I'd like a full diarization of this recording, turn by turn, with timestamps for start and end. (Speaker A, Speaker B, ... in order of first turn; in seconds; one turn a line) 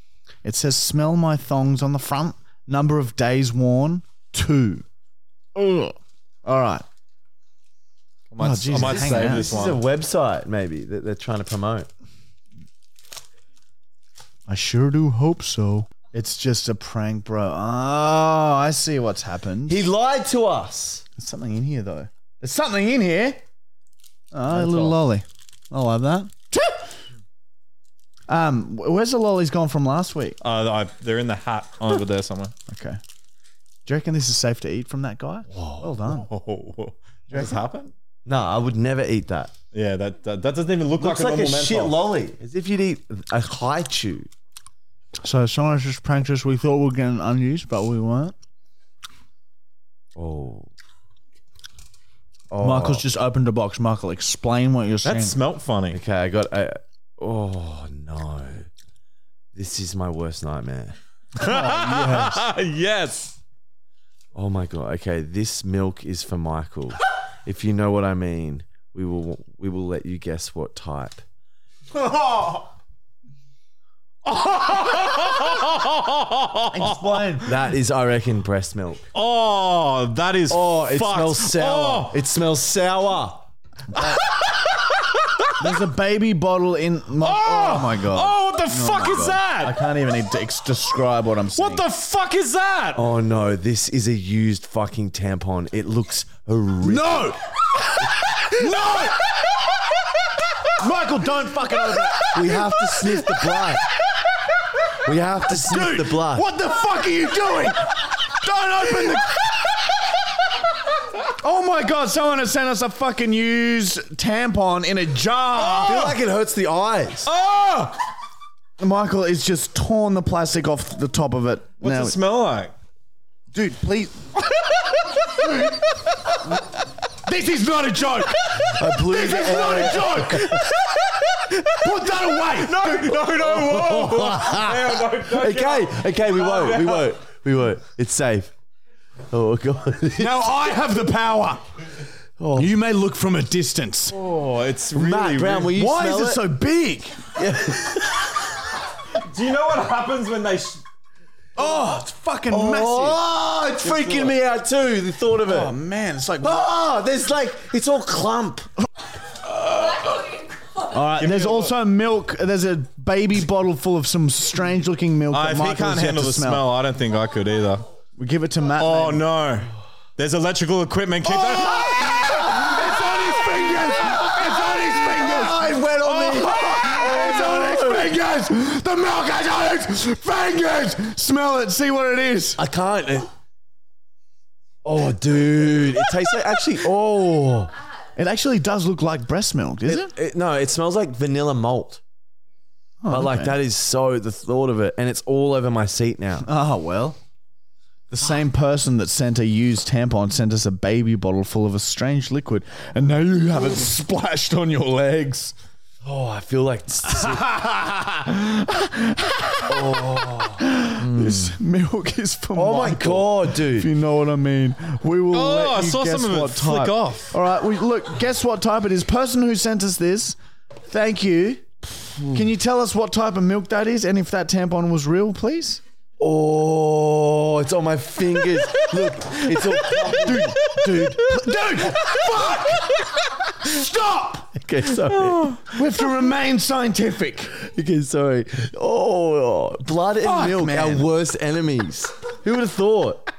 Speaker A: 0.4-4.8
Speaker A: 5.5-6.8
Speaker B: 8.3-9.8
Speaker A: 8.4-9.6
Speaker C: 8.8-11.9
Speaker A: 14.5-19.9
Speaker C: 19.7-21.0
Speaker A: 21.1-23.4
Speaker A: 24.3-26.9
Speaker C: 24.5-25.0
Speaker A: 28.3-30.4
Speaker B: 30.4-32.5
Speaker A: 32.7-33.0
Speaker A: 33.9-36.3
Speaker B: 36.1-37.9
Speaker A: 37.3-37.6
Speaker C: 38.2-39.5
Speaker B: 39.7-42.0
Speaker C: 41.0-44.3
Speaker A: 45.2-48.4
Speaker C: 50.1-50.7
Speaker C: 52.5-53.0
Speaker A: 52.6-55.4
Speaker B: 55.0-56.0
Speaker C: 55.9-58.7
Speaker C: 59.5-60.9
Speaker A: 61.4-62.4
Speaker B: 61.4-63.4
Speaker C: 64.3-71.2
Speaker A: 71.9-72.7
Speaker B: 74.2-77.2
Speaker A: 76.7-77.5
Speaker C: 77.4-79.1
Speaker B: 79.1-82.2
Speaker C: 80.5-83.5
Speaker A: 83.9-84.2
Speaker B: 83.9-85.7
Speaker A: 85.6-91.8
Speaker B: 87.2-89.8
Speaker B: 91.5-93.0
Speaker C: 92.9-97.3
Speaker A: 96.8-99.6
Speaker A: 100.8-103.8
Speaker C: 102.3-103.8
Speaker C: 105.0-106.5
Speaker A: 105.5-110.1
Speaker A: 111.2-116.2
Speaker B: 115.7-116.1
Speaker C: 115.7-117.3
Speaker B: 117.2-118.0
Speaker A: 118.8-122.2
Speaker B: 121.8-122.7
Speaker A: 123.5-133.4
Speaker C: 128.7-130.5
Speaker B: 132.4-137.2
Speaker C: 133.4-134.7
Speaker A: 134.3-134.8
Speaker C: 135.2-138.5
Speaker C: 139.3-140.5
Speaker A: 140.2-141.6
Speaker C: 142.4-142.7
Speaker A: 142.6-144.2
Speaker B: 144.1-145.7
Speaker C: 144.9-146.4
Speaker A: 145.7-147.3
Speaker C: 147.3-148.2
Speaker B: 149.1-150.8
Speaker A: 151.6-153.2
Speaker C: 152.5-155.7
Speaker B: 153.8-154.3
Speaker A: 155.4-156.7
Speaker C: 156.4-158.7
Speaker A: 160.9-166.7
Speaker B: 161.2-161.7
Speaker B: 165.3-167.9
Speaker A: 168.2-169.3
Speaker B: 168.8-172.0
Speaker A: 171.2-182.6
Speaker C: 175.1-178.1
Speaker B: 176.0-176.5
Speaker C: 182.6-183.3
Speaker C: 184.8-187.7
Speaker A: 188.2-190.1
Speaker C: 189.9-192.0
Speaker A: 193.0-193.6
Speaker C: 193.1-196.5
Speaker A: 196.4-197.2
Speaker A: 198.1-205.5
Speaker C: 206.0-207.4
Speaker A: 207.2-220.4
Speaker C: 209.7-210.7
Speaker B: 211.1-211.4
Speaker C: 212.5-213.9
Speaker B: 215.3-217.3
Speaker A: 220.9-221.7
Speaker A: 222.3-225.8
Speaker C: 226.2-230.8
Speaker A: 229.8-234.5
Speaker C: 234.5-235.6
Speaker A: 235.7-237.5
Speaker C: 237.5-243.3
Speaker A: 240.2-241.1